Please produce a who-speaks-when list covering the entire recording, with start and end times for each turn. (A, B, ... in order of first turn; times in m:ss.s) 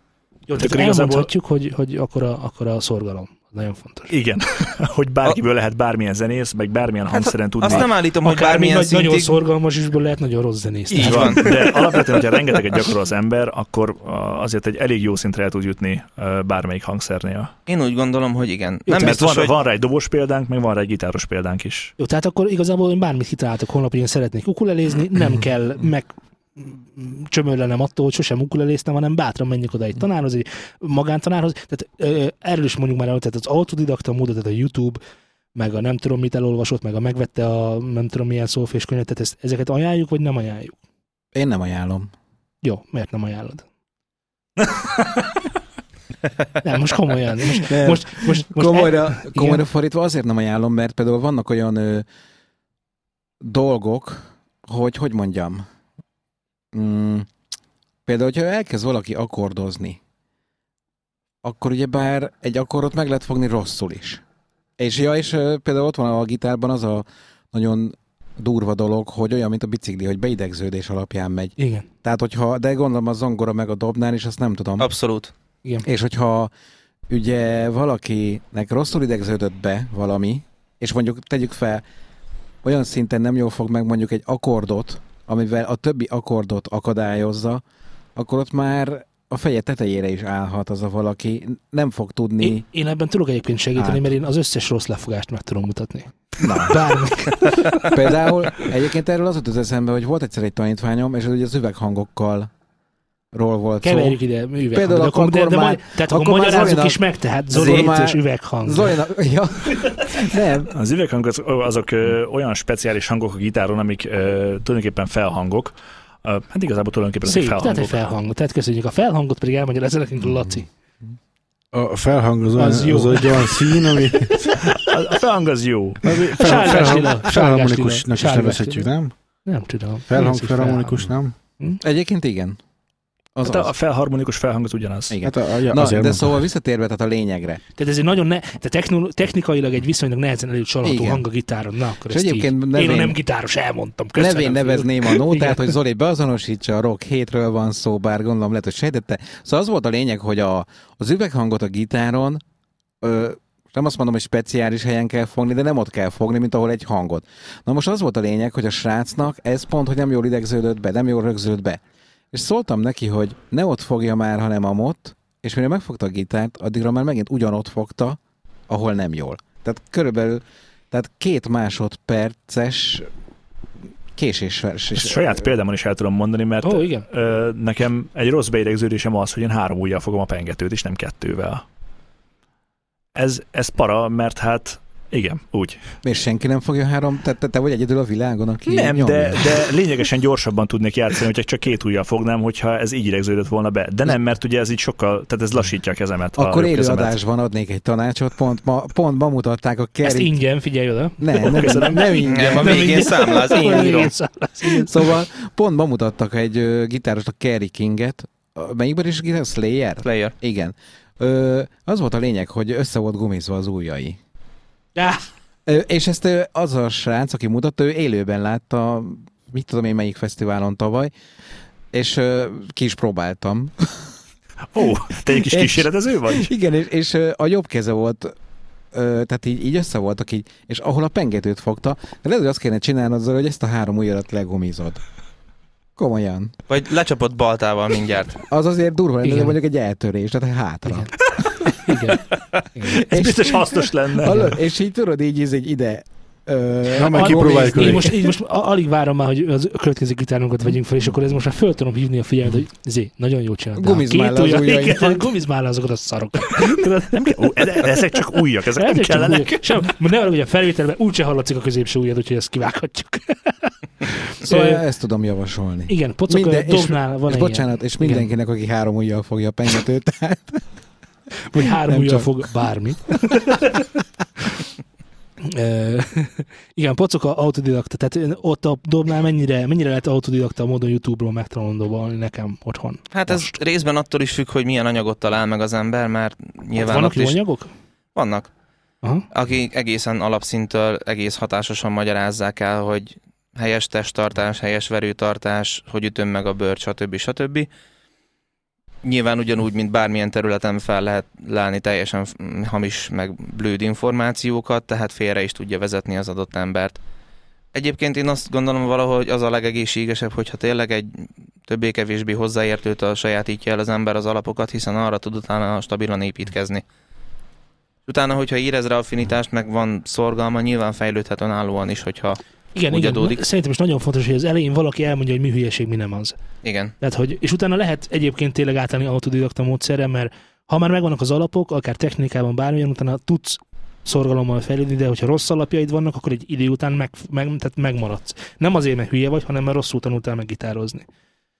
0:00.5-0:04.1 A
0:00.6-0:01.3 B
0:04.1-0:07.9 B
0:07.1-0:09.4 C
0:07.7-0:11.5 A
0:10.9-0:12.0 C
0:11.0-0:17.5 B
0:17.7-0:19.5 C
0:18.9-0:21.9 B
0:22.0-0:35.0 A
0:35.6-0:40.8 A
0:41.3-0:42.1 D
0:42.6-0:43.6 A
0:46.6-0:49.6 A
0:47.5-0:52.1 D
0:53.4-0:55.6 D
0:56.7-0:57.3 D
0:58.1-1:00.0 D
1:01.4-1:04.2 D
1:04.8-1:14.9 D
1:11.6-1:11.9 A
1:14.8-1:15.3 C
1:15.8-1:16.5 D
1:17.1-1:21.8 D
1:22.6-1:27.6 D
1:28.2-1:32.6 D
1:32.4-1:38.1 A
1:33.8-1:34.1 D
1:36.4-1:36.8 D
1:37.8-1:42.5 D
1:43.3-1:44.2 D
1:43.8-1:49.0 A
1:44.7-1:50.7 D
1:50.7-1:58.0 B
1:57.2-2:00.7 A
2:01.7-2:04.5 E
2:02.6-2:04.7 A
2:04.5-2:06.9 B
2:06.0-2:09.1 E
2:06.4-2:08.9 A
2:09.4-2:11.8 A
2:10.1-2:11.3 E
2:11.8-2:12.6 D
2:13.4-2:13.7 D
2:13.4-2:15.2 B
2:15.1-2:17.6 D
2:15.2-2:16.4 E
2:17.8-2:25.7 A
2:20.8-2:21.2 D
2:22.1-2:23.2 D
2:24.2-2:32.4 D
2:33.0-2:41.8 D
2:42.3-2:53.1 D
2:54.2-2:55.4 D
2:55.0-3:01.6 B
2:56.6-2:57.1 A
3:03.1-3:05.8 B
3:06.0-3:09.7 D
3:08.7-3:17.1 B
3:16.4-3:20.4 D
3:20.0-3:25.1 A
3:21.2-3:23.1 D
3:21.5-3:22.0 B
3:22.3-3:24.1 C
3:24.7-3:34.2 D
3:30.0-3:30.3 C
3:35.0-3:35.2 A
3:35.7-3:41.1 D
3:41.9-3:44.0 D
3:44.7-3:46.5 B
3:45.3-3:48.4 D
3:48.9-3:55.0 D
3:56.0-3:56.6 D
3:56.7-3:58.4 C
3:58.5-4:01.1 D
3:59.2-3:59.6 A
4:00.9-4:01.1 A
4:01.8-4:03.0 A
4:02.9-4:04.5 B
4:03.0-4:08.1 D
4:06.9-4:08.1 E
4:07.1-4:18.2 A
4:13.8-4:15.3 D
4:17.1-4:19.7 B
4:18.8-4:24.8 A
4:24.4-4:30.6 D
4:25.9-4:28.3 A
4:31.5-4:33.9 A
4:31.9-4:32.3 D
4:35.4-4:43.6 A
4:43.1-4:47.4 C
4:46.8-4:47.7 A
4:48.2-4:48.5 C
4:49.3-4:57.7 C
4:59.0-5:07.0 C
5:07.7-5:16.8 C
5:18.1-5:22.4 C
5:22.7-5:26.4 A
5:22.9-5:23.4 C
5:26.6-5:26.9 C
5:27.0-5:41.1 A